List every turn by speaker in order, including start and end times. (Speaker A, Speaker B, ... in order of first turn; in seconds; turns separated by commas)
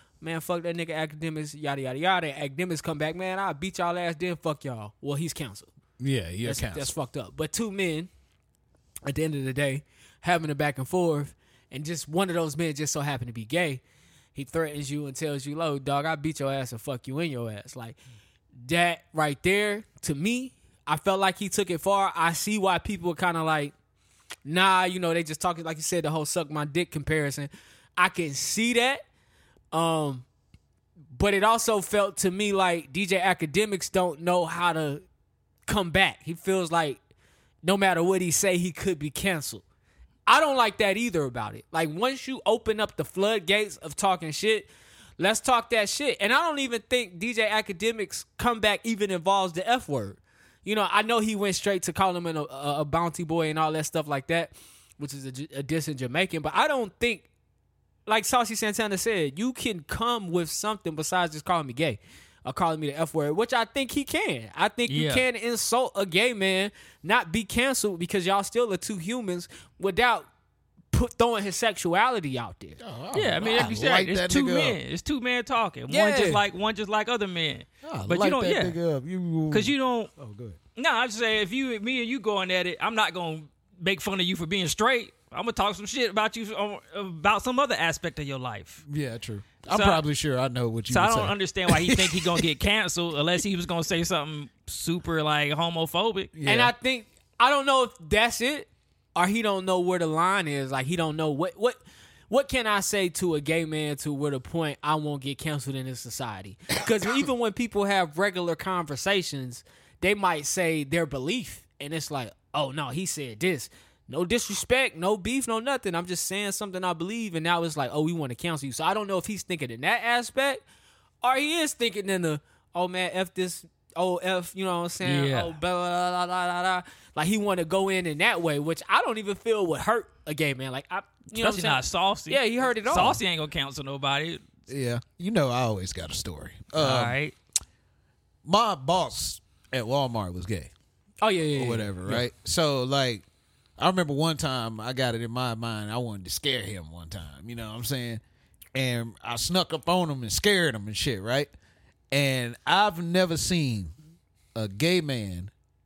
Speaker A: 0.2-5.7, Speaker B: 6.0-7.0, Speaker A: 6.4-8.1, Speaker A: 9.1-13.8, Speaker A: 14.3-18.0, Speaker A: 18.6-23.7, Speaker A: 24.4-29.0, Speaker A: 29.7-30.2, Speaker A: 31.1-35.0, Speaker A: 35.7-37.0, Speaker A: 37.6-39.6, Speaker A: 40.3-57.3, Speaker A: 58.1-70.3, Speaker C: 64.9-65.2, Speaker A: 70.9-72.8, Speaker B: 72.8-74.8, Speaker C: 73.1-78.8, Speaker A: 75.9-76.4, Speaker B: 77.8-80.6, Speaker C: 79.5-80.1, Speaker C: 80.8-88.8, Speaker B: 88.9-92.5, Speaker C: 89.7-90.0, Speaker C: 90.9-96.3, Speaker B: 96.3-96.7, Speaker A: 96.5-120.6, Speaker A: 121.2-133.2, Speaker C: 125.0-125.5, Speaker C: 131.3-134.4, Speaker B: 134.7-137.2, Speaker C: 136.8-137.3, Speaker B: 138.4-140.7, Speaker A: 141.2-142.2, Speaker B: 141.5-143.2, Speaker B: 143.8-148.2, Speaker B: 148.8-151.5, Speaker B: 152.1-153.9, Speaker B: 154.6-155.5